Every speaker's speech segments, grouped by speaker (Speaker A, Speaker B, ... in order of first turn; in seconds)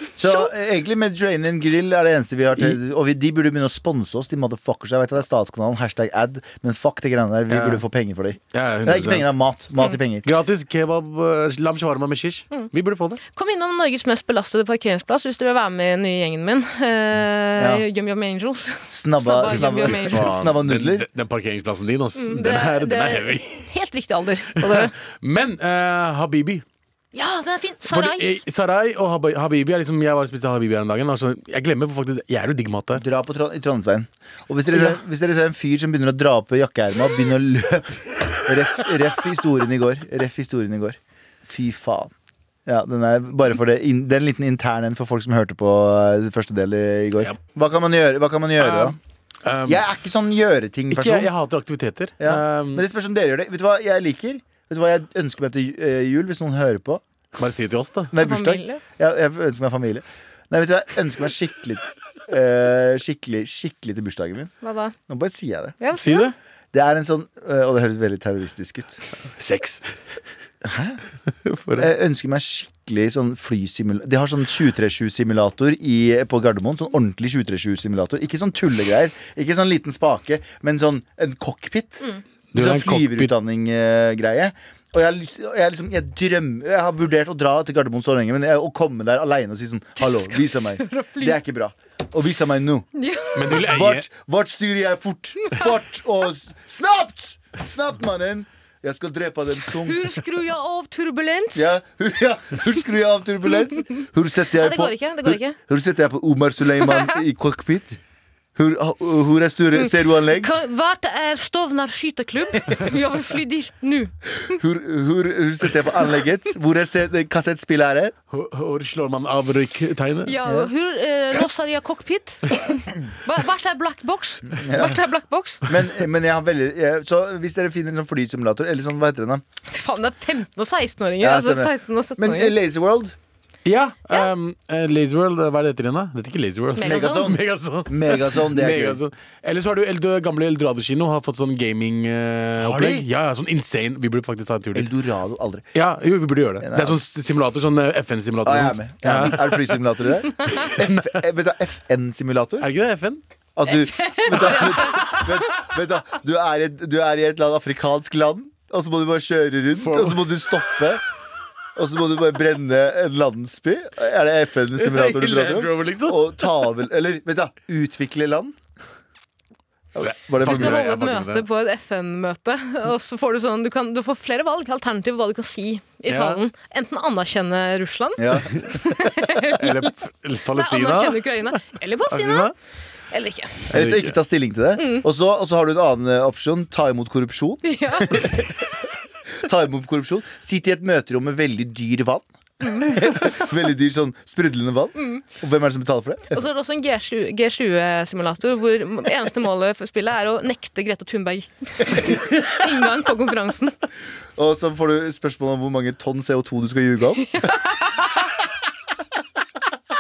Speaker A: 0.2-10.2, 17.6-17.8, 18.8-21.1, 32.9-42.1, 42.6-49.0, 49.6-51.3, 52.2-57.0, 58.1-64.5, 65.1-65.8, 66.7-69.0, 70.6-71.0, 71.7-92.9, 93.4-100.1, 101.5-108.0, 108.5-110.5, 114.5-118.1, 120.4-120.7, 124.5-125.0, 125.7-129.4, 131.2-133.2, 136.8-139.0, 142.6-143.1, 144.7-145.6, 146.6-147.0, 148.4-152.7, 153.6-161.0, 161.8-168.6, 169.9-170.8, 178.2-179.1, 183.7-188.7, 189.4-196.4, 204.3-207.3
Speaker B: 0.2-0.5, 13.3-20.5, 22.1-24.9, 27.1-28.4, 58.1-58.8, 64.6-64.9, 65.8-66.3, 90.0-91.4, 93.0-93.6, 99.8-101.8, 104.5-105.6, 106.8-107.1, 109.8-114.6, 120.2-125.7, 129.7-132.6, 136.8-137.3, 153.7-155.2, 170.4-179.9, 180.5-182.5, 183.1-183.6, 184.8-185.0, 187.6-188.3, 192.6-192.9, 195.0-195.2, 196.3-203.7, 207.4-208.1
Speaker C: 7.5-7.8, 8.5-9.3, 10.2-13.2, 19.4-23.7, 24.6-26.6, 27.9-33.0, 48.6-49.9, 50.9-52.8, 57.4-58.1, 65.9-66.3, 69.3-69.8, 71.5-71.9, 82.5-83.3, 93.3-94.1, 118.3-120.3, 133.6-144.9, 145.7-149.8, 150.5-151.1, 152.6-153.2, 159.8-160.6, 164.8-166.4, 170.0-171.4, 176.1-176.4, 179.6-182.5, 183.7-184.2